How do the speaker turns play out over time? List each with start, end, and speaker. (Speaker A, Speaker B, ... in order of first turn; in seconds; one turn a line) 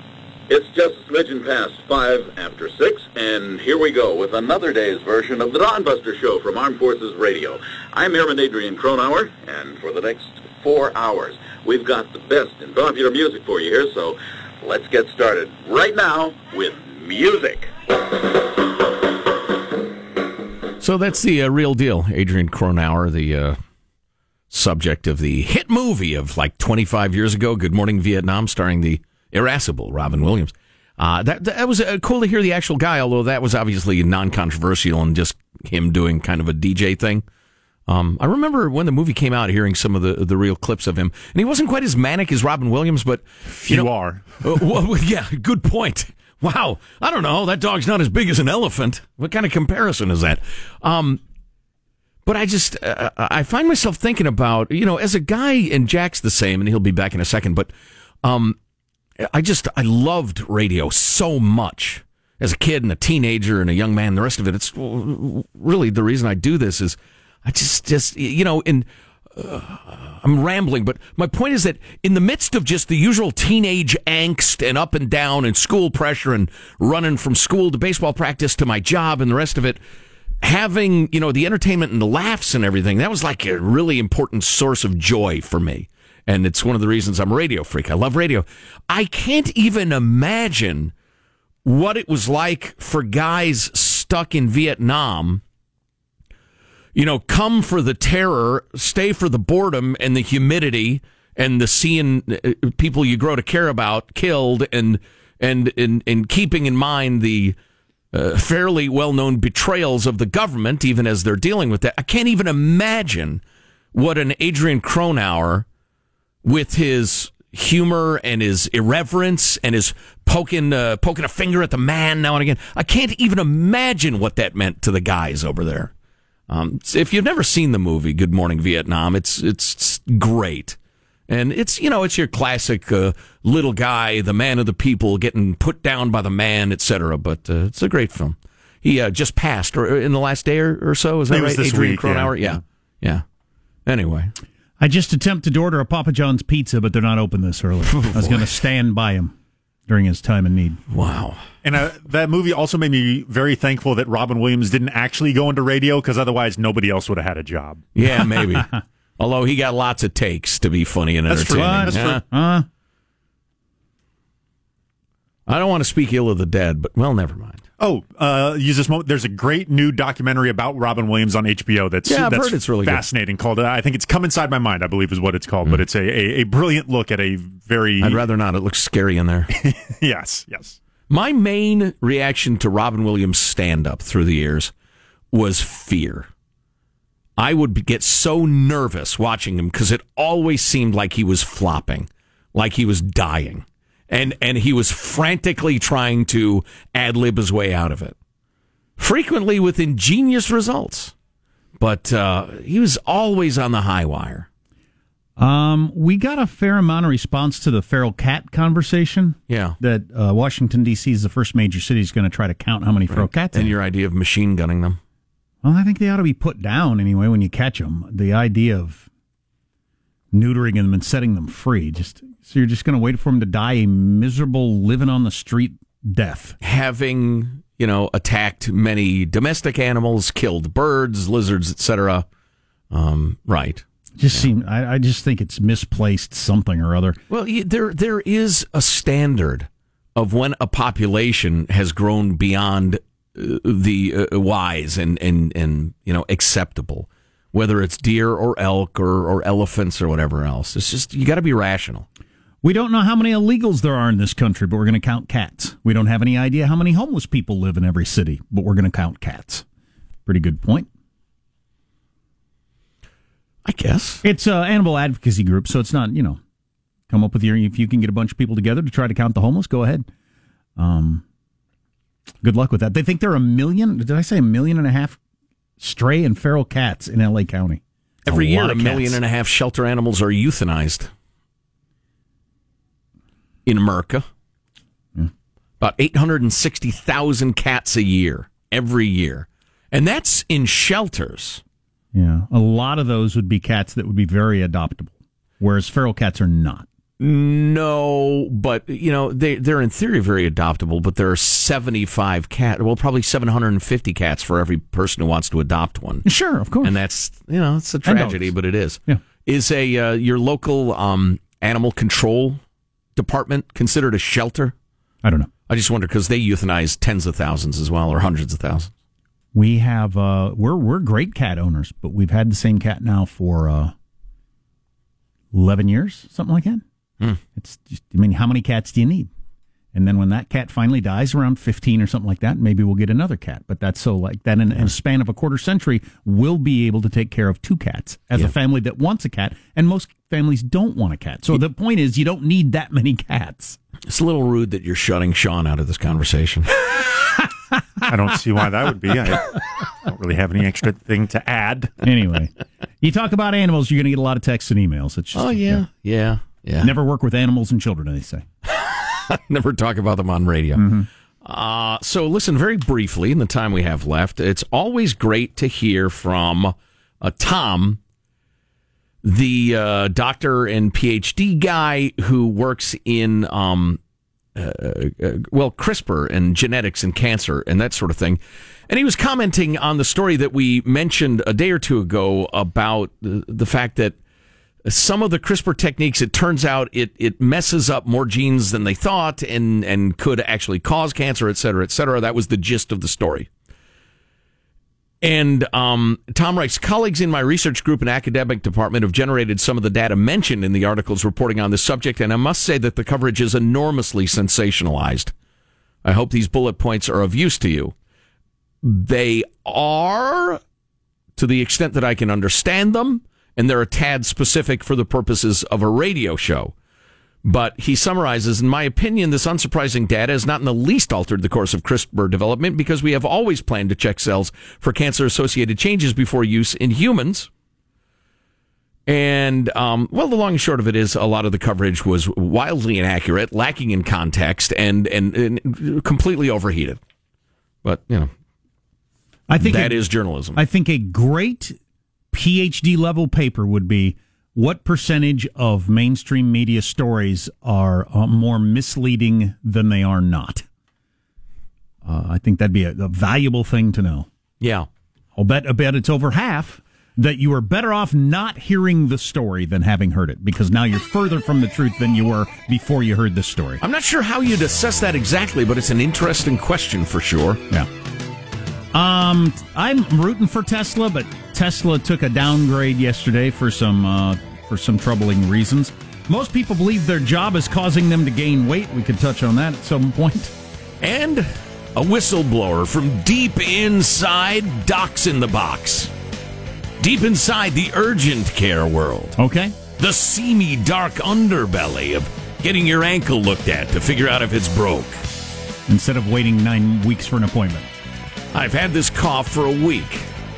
Speaker A: 0.5-17.7
Speaker B: 20.8-23.6
Speaker B: 24.5-37.2
Speaker B: 37.9-51.2
Speaker C: 43.5-44.4
Speaker B: 52.2-57.7
Speaker B: 58.2-58.6
Speaker B: 59.2-79.8
Speaker B: 80.4-90.9
Speaker B: 91.7-95.4
Speaker B: 97.0-107.6
Speaker B: 108.1-113.4
Speaker B: 113.9-115.7
Speaker B: 116.4-125.9
Speaker B: 126.5-130.8
Speaker B: 131.3-143.2
Speaker C: 141.3-142.6
Speaker B: 143.9-144.3
Speaker D: 144.8-149.3
Speaker B: 147.9-148.5
Speaker D: 149.9-150.8
Speaker B: 150.9-151.4
Speaker C: 151.6-157.8
Speaker B: 157.9-162.2
Speaker D: 161.3-162.7
Speaker C: 161.3-162.2
Speaker B: 165.5-167.6
Speaker C: 167.8-178.2
Speaker B: 172.1-173.0
Speaker B: 178.0-179.5
Speaker C: 179.6-180.8
Speaker B: 181.1-184.7
Speaker B: 185.3-186.3
Speaker B: 187.4-198.2
Speaker B: 199.0-201.1
Speaker B: 201.8-204.5
Speaker D: 205.4-213.8
Speaker B: 209.5-209.8
Speaker B: 213.1-215.0
Speaker D: 215.6-219.1
Speaker D: 220.3-226.6
Speaker B: 226.6-232.2
Speaker B: 232.9-234.5
Speaker D: 234.2-237.2
Speaker B: 237.3-252.1
Speaker D: 252.6-259.6
Speaker D: 260.3-260.9
Speaker B: 263.6-264.2
Speaker D: 264.2-266.4
Speaker D: 267.1-270.1
Speaker D: 270.8-271.2
Speaker D: 272.4-275.2
Speaker D: 275.8-279.2
Speaker B: 278.3-281.1
Speaker B: 283.7-284.2
Speaker B: 285.8-291.6
Speaker D: 292.1-296.9
Speaker B: 297.2-306.3
Speaker D: 306.2-306.9
Speaker B: 306.8-312.6
Speaker D: 308.1-308.5
Speaker B: 313.2-314.7
Speaker D: 315.2-315.5
Speaker B: 315.7-318.9
Speaker D: 319.5-323.9
Speaker D: 325.5-326.8
Speaker D: 327.6-329.3
Speaker D: 329.9-343.8
Speaker B: 344.1-346.7
Speaker C: 348.1-351.9
Speaker D: 352.0-355.8
Speaker B: 355.3-356.9
Speaker D: 356.8-358.4
Speaker B: 358.7-360.9
Speaker D: 360.8-361.1
Speaker B: 361.4-368.0
Speaker B: 369.2-374.0
Speaker B: 374.6-384.2
Speaker B: 384.9-393.5
Speaker B: 395.2-405.3
Speaker B: 406.0-407.9
Speaker B: 408.8-410.6
Speaker B: 411.4-416.7
Speaker B: 417.4-427.5
Speaker B: 429.1-437.0
Speaker B: 437.8-438.3
Speaker D: 439.5-440.0
Speaker B: 439.6-440.6
Speaker D: 440.6-441.8
Speaker D: 442.3-450.6
Speaker D: 452.1-454.3
Speaker B: 454.6-454.9
Speaker D: 455.4-463.8
Speaker B: 463.8-467.6
Speaker D: 468.9-480.5
Speaker B: 481.0-486.1
Speaker B: 487.0-489.4
Speaker D: 489.4-489.8
Speaker B: 490.0-495.2
Speaker D: 495.9-497.9
Speaker B: 498.5-500.3